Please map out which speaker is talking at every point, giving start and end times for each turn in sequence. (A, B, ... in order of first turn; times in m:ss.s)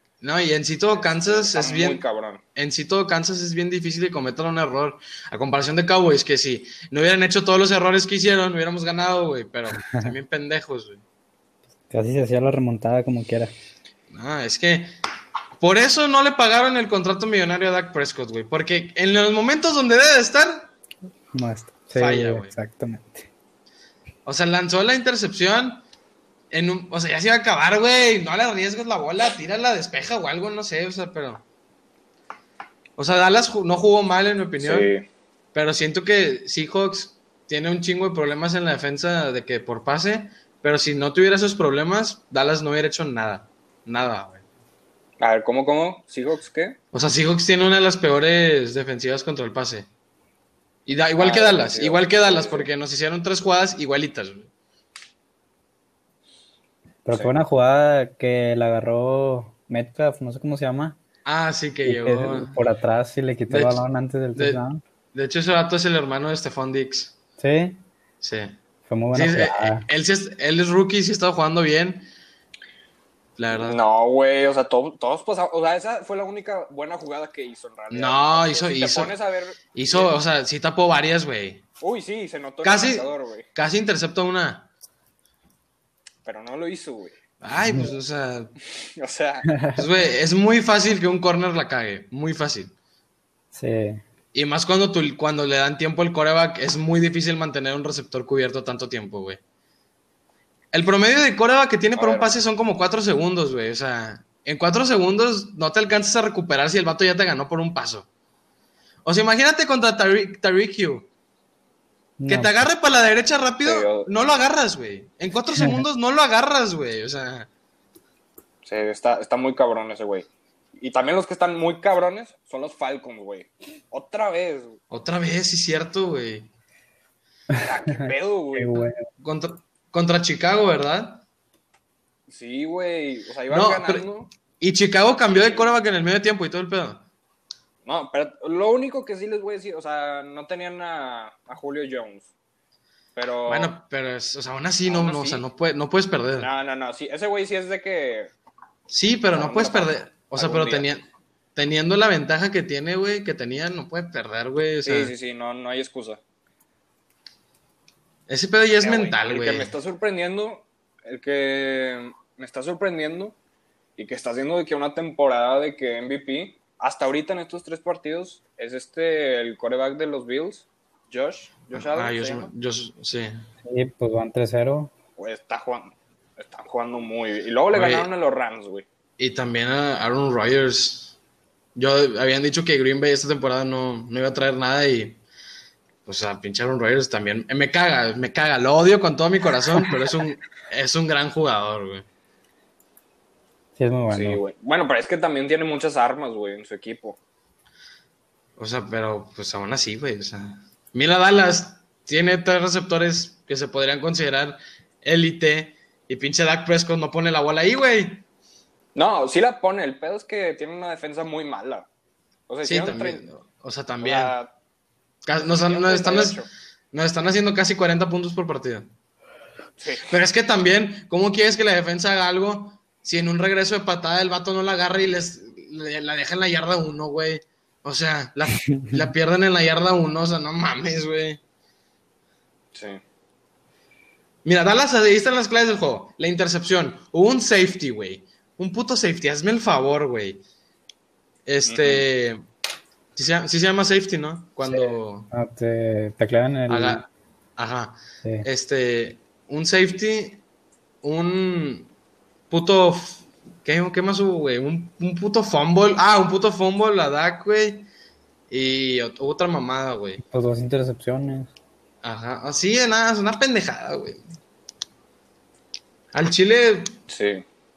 0:00.2-0:02.0 A
0:01.0-0:02.4 B
0:02.6-0:11.0 A
0:11.9-0:13.5 C
0:14.1-0:14.9 A
0:15.6-0:20.7 A
0:21.3-0:23.3 C
0:22.0-0:22.5 A
0:24.2-0:25.8 A
0:26.5-0:31.4 A
0:33.0-0:34.9 A
0:34.6-0:35.0 B
0:35.5-0:44.4 A
0:45.2-0:46.8 B
0:46.9-0:49.9 A
0:50.9-0:54.5 A
0:51.2-0:52.7 B
0:57.1-1:01.0 C
1:01.2-1:02.6 A
1:01.8-1:04.8 C
1:03.5-1:03.8 A
1:04.4-1:04.6 A
1:05.1-1:07.1 A
1:07.4-1:07.8 C
1:08.2-1:08.6 A
1:08.9-1:09.9 C
1:09.1-1:12.1 A
1:13.4-1:13.8 A
1:13.5-1:20.2 B
1:17.9-1:19.2 A
1:19.8-1:21.6 A
1:21.8-1:23.5 B
1:22.6-1:24.7 A
1:26.2-1:27.2 B
1:27.4-1:28.5 A
1:27.6-1:27.9 C
1:28.8-1:29.5 B
1:29.5-1:29.8 C
1:29.8-1:32.7 A
1:33.5-1:34.0 C
1:34.3-1:39.4 A
1:40.7-1:48.1 A
1:42.0-1:42.4 B
1:49.0-1:51.1 A
1:52.2-1:52.6 C
1:52.3-1:57.5 A
1:53.6-1:54.1 B
1:55.5-1:55.8 C
1:58.6-2:04.8 B
2:04.9-2:06.5 A
2:07.5-2:09.1 C
2:07.6-2:08.9 B
2:09.2-2:11.2 A
2:12.3-2:14.3 B
2:13.5-2:14.1 A
2:14.6-2:17.0 A
2:15.3-2:15.7 B
2:17.8-2:22.3 B
2:23.2-2:23.7 B
2:23.5-2:26.5 A
2:24.9-2:25.4 B
2:26.4-2:28.3 B
2:28.9-2:31.0 A
2:29.3-2:31.0 B
2:31.6-2:35.1 A
2:34.8-2:36.2 B
2:38.3-2:39.7 A
2:38.8-2:43.4 B
2:44.0-2:52.5 B
2:51.7-2:53.5 A
2:53.6-2:54.9 C
2:55.2-2:58.9 B
2:57.7-2:58.1 A
2:59.2-3:01.2 A
3:01.8-3:05.2 A
3:06.1-3:12.1 A
3:13.8-3:14.4 C
3:14.1-3:17.2 B
3:18.6-3:28.2 A
3:29.0-3:31.9 B
3:32.5-3:33.2 B
3:32.6-3:34.3 A
3:34.0-3:34.5 B
3:35.2-3:36.4 A
3:35.4-3:36.5 B
3:36.9-3:38.9 A
3:39.8-3:40.1 B
3:40.0-3:51.4 A
3:48.7-3:49.0 C
3:52.7-3:53.0 B
3:54.4-4:00.4 A
4:01.5-4:02.4 A
4:01.6-4:02.0 B
4:03.1-4:05.3 A
4:04.6-4:07.0 C
4:06.7-4:10.4 A
4:11.0-4:11.9 A
4:12.5-4:17.9 A
4:18.5-4:20.2 A
4:20.2-4:21.5 C
4:22.0-4:24.2 A
4:26.1-4:27.0 A
4:27.1-4:27.4 B